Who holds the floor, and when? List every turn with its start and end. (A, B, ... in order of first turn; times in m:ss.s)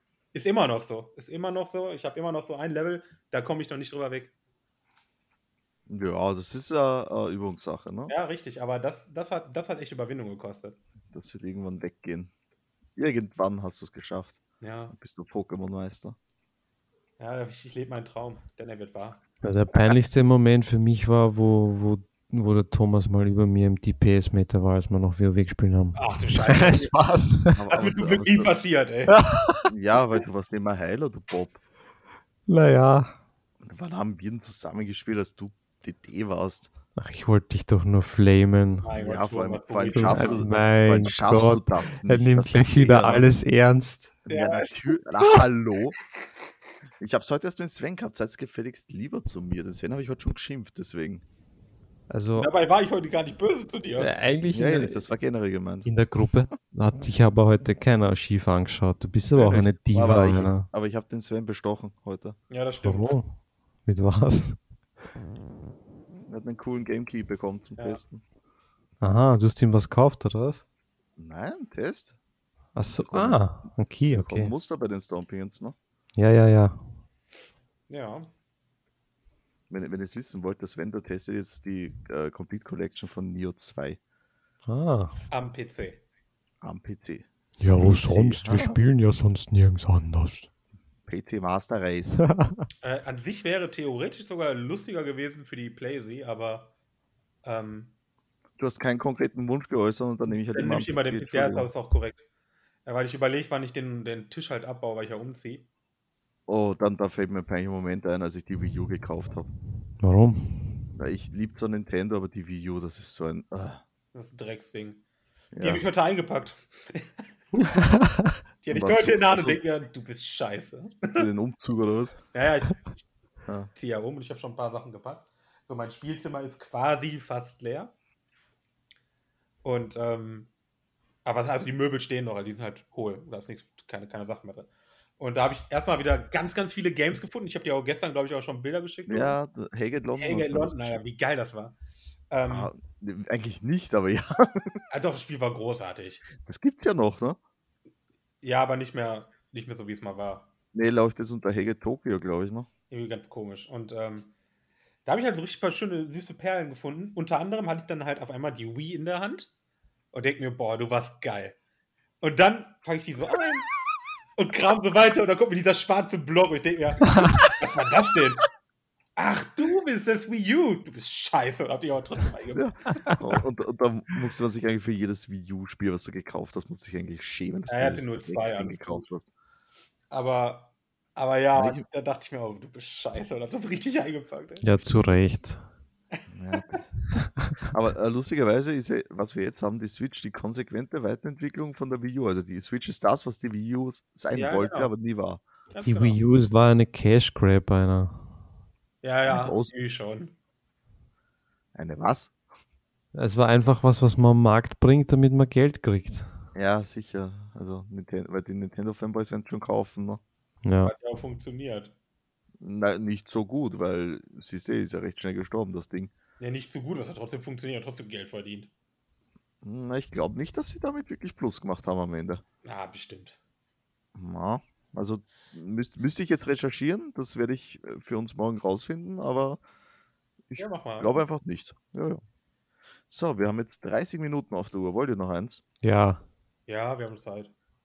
0:00.3-0:04.3 A
0:05.9-0:08.1 B
0:08.1-0:10.8 A
0:11.1-0:12.3 B
0:13.0-0:14.4 B
0:14.6-0:15.0 A
0:14.9-0:16.2 B
0:17.2-0:19.2 A
0:19.4-0:27.6 C
0:26.0-0:26.9 A
0:27.6-0:28.6 B
0:27.7-0:29.2 A
0:29.1-0:29.7 C
0:29.7-0:31.6 B
0:32.5-0:33.1 C
0:33.6-0:36.7 B
0:37.0-0:38.9 C
0:38.8-0:40.5 A
0:39.0-0:43.3 B
0:39.9-0:44.2 C
0:44.3-0:44.8 A
0:44.3-0:46.0 B
0:47.0-0:51.2 B
0:52.1-0:52.5 C
0:52.4-0:54.1 A
0:54.0-0:55.0 C
0:54.5-0:55.9 B
0:55.8-1:00.7 C
0:59.4-1:02.4 B
1:02.5-1:03.1 A
1:02.8-1:03.3 C
1:03.9-1:04.6 C
1:06.3-1:08.2 B
1:09.0-1:10.6 C
1:11.2-1:12.2 B
1:12.8-1:14.5 C
1:12.9-1:13.4 B
1:14.1-1:15.8 B
1:16.2-1:16.8 C
1:17.9-1:18.3 A
1:19.7-1:24.0 B
1:24.7-1:25.1 C
1:25.3-1:26.0 A
1:26.6-1:28.8 B
1:27.6-1:30.5 C
1:31.1-1:32.2 B
1:32.2-1:32.7 C
1:32.8-1:36.7 A
1:37.4-1:37.9 A
1:38.6-1:41.7 B
1:40.5-1:42.2 A
1:42.8-1:45.7 A
1:46.5-1:49.5 B
1:50.0-1:50.8 C
1:51.0-1:53.8 B
1:54.1-1:55.0 A
1:55.5-1:55.8 B
1:55.6-1:57.3 A
1:57.6-1:58.3 C
1:58.6-2:01.3 A
1:58.7-1:59.6 B
2:01.2-2:02.2 B
2:02.3-2:03.0 A
2:03.8-2:07.9 A
2:09.6-2:10.5 A
2:11.2-2:19.4 A
2:19.1-2:21.0 B
2:20.2-2:21.8 A
2:22.3-2:22.7 A
2:22.5-2:24.8 B
2:24.9-2:26.2 A
2:26.4-2:27.4 B
2:28.4-2:30.5 A
2:30.7-2:32.7 B
2:32.9-2:34.3 A
2:35.0-2:39.5 A
2:40.1-2:41.6 A
2:42.2-2:43.7 A
2:44.4-2:48.4 A
2:47.1-2:47.5 C
2:49.2-2:52.7 A
2:52.6-2:59.3 B
2:57.7-2:59.1 A
3:00.1-3:04.7 A
3:01.6-3:01.8 B
3:04.6-3:05.6 C
3:06.3-3:06.9 B
3:07.7-3:15.4 B
3:14.3-3:14.9 A
3:15.7-3:16.2 A
3:15.8-3:18.3 C
3:19.0-3:20.3 A
3:19.3-3:19.7 B
3:21.8-3:22.3 B
3:23.1-3:26.3 C
3:26.6-3:30.2 B
3:30.6-3:30.9 C
3:30.8-3:31.9 A
3:32.6-3:36.1 B
3:36.4-3:38.7 A
3:39.6-3:42.4 B
3:42.6-3:43.4 A
3:44.2-3:49.6 B
3:50.5-3:52.2 B
3:50.6-3:51.2 A
3:53.1-3:55.6 B
3:55.8-3:56.2 C
3:56.7-3:57.5 A